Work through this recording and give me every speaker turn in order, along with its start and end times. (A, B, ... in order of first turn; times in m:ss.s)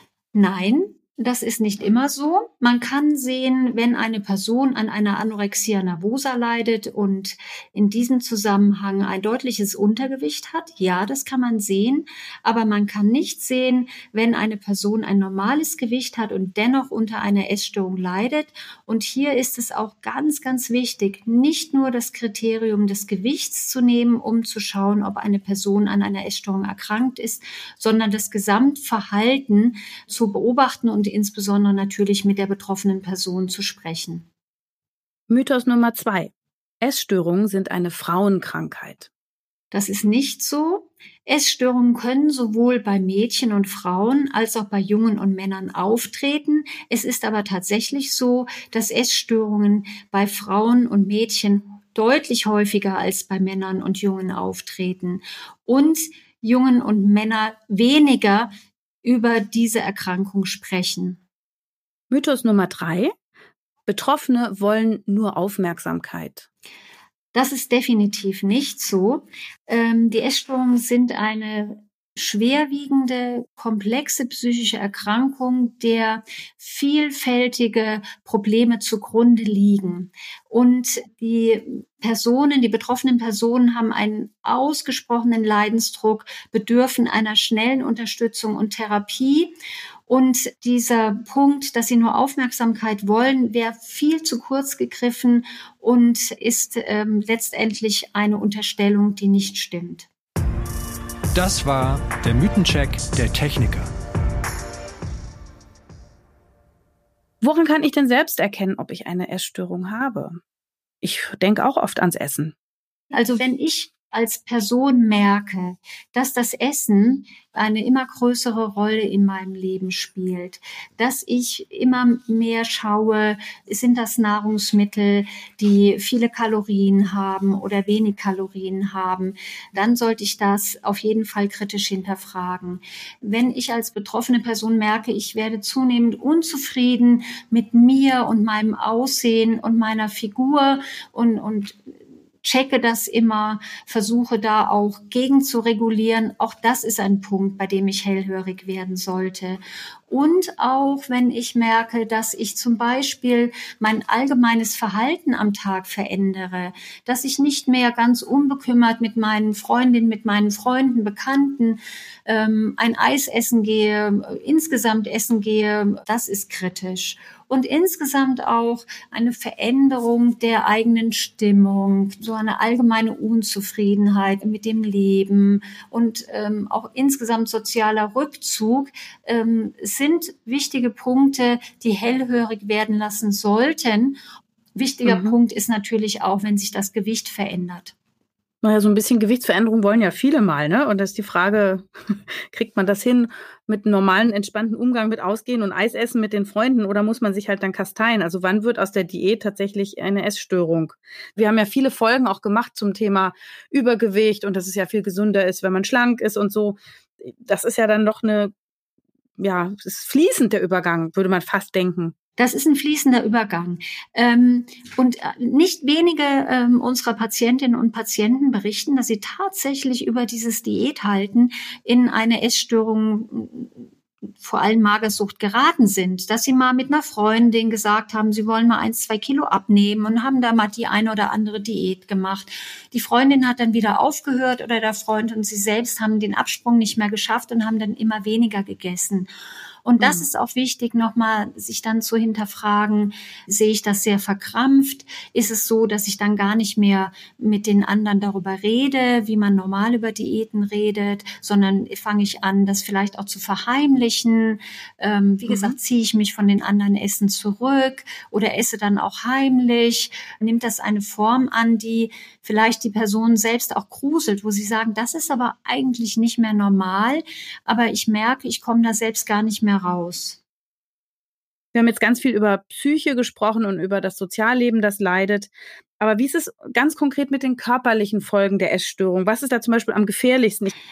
0:00.3-0:34.3 A
0:35.3-0:39.1 B
0:39.7-0:58.5 A
0:59.0-1:01.2 A
1:02.1-1:03.1 B
1:03.9-1:06.5 B
1:07.3-1:29.5 A
1:30.1-1:40.1 A
1:41.3-1:43.9 C
1:47.4-1:50.4 B
1:51.0-1:52.5 B
1:53.1-2:21.9 A
2:22.4-3:04.2 A
3:04.8-3:07.9 A
3:05.0-3:05.4 B
3:08.6-3:28.5 B
3:29.4-3:32.1 B
3:32.4-3:43.8 A
3:44.4-3:59.3 A
3:59.8-4:30.4 A
4:00.0-4:00.2 B
4:15.5-4:15.7 B
4:31.7-4:40.7 B